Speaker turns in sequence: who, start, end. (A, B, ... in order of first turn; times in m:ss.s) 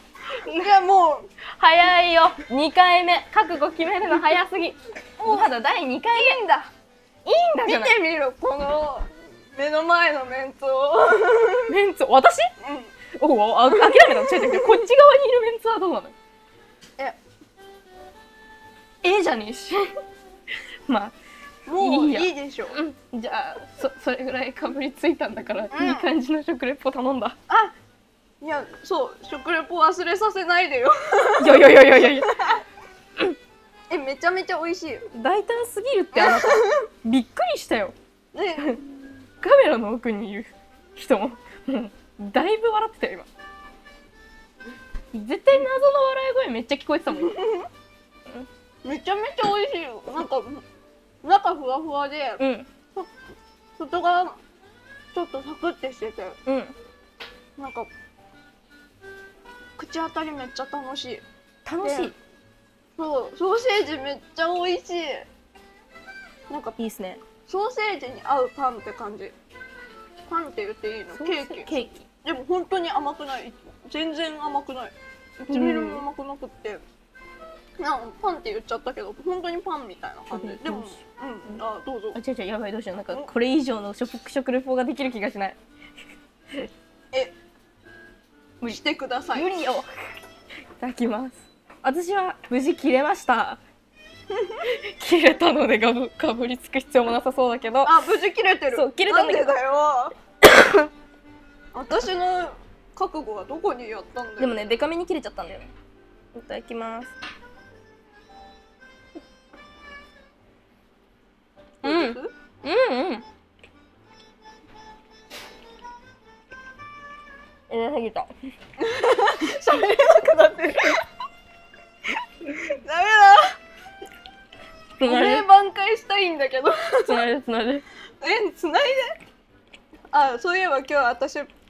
0:00.3-0:00.7 A
0:00.5-0:01.3 B
0:01.6-0:06.4 A
0:05.2-0:05.5 B
0:06.1-0:06.7 B
0:07.2-0:08.0 A
0:07.6-0:11.7 B
0:11.7-0:12.5 A
0:12.6-0:12.9 B
0:13.2-0:16.2 A
0:13.7-0:14.8 B
0:19.0-0:19.9 A
0:20.9-0:21.1 A
0:21.7-0:22.8 B
0:21.8-0:27.4 A
0:25.7-0:26.1 B
0:28.4-0:32.6 B
0:31.4-0:32.6 A
0:33.9-0:35.1 B
0:35.1-0:37.9 A
0:36.1-0:36.8 B
0:38.3-0:39.0 B
0:39.4-0:43.3 A
0:45.1-0:47.4 A
0:47.1-0:47.7 B
0:48.8-0:50.6 B
0:51.2-0:52.4 B
0:52.4-0:52.7 A
0:53.8-0:54.4 B
0:55.1-0:56.4 B
0:56.5-0:56.7 A
0:57.6-0:57.9 B
0:59.8-1:01.2 B
1:01.6-1:02.2 A
1:01.8-1:02.1 B
1:03.0-1:05.3 B
1:06.5-1:06.8 B
1:06.8-1:07.2 A
1:07.5-1:09.4 B
1:10.3-1:16.8 B
1:11.1-1:12.1 A
1:15.5-1:16.0 A
1:17.8-1:22.2 B
1:20.3-1:21.6 A
1:22.2-1:25.6 A
1:28.6-1:29.5 B
1:29.3-1:30.1 A
1:30.8-1:33.6 A
1:34.3-1:34.6 B
1:34.6-1:38.0 A
1:37.8-1:40.1 B
1:38.7-1:39.6 A
1:40.4-1:40.9 A
1:41.7-1:44.6 B
1:44.4-1:45.7 A
1:46.3-1:47.1 A
1:51.8-1:52.3 B
1:51.8-1:53.2 A
1:57.7-1:58.3 A
1:58.8-2:01.0 B
2:02.5-2:03.6 B
2:05.0-2:05.5 A
2:05.0-2:07.3 B
2:07.1-2:07.8 A
2:08.2-2:09.2 B
2:10.1-2:11.5 B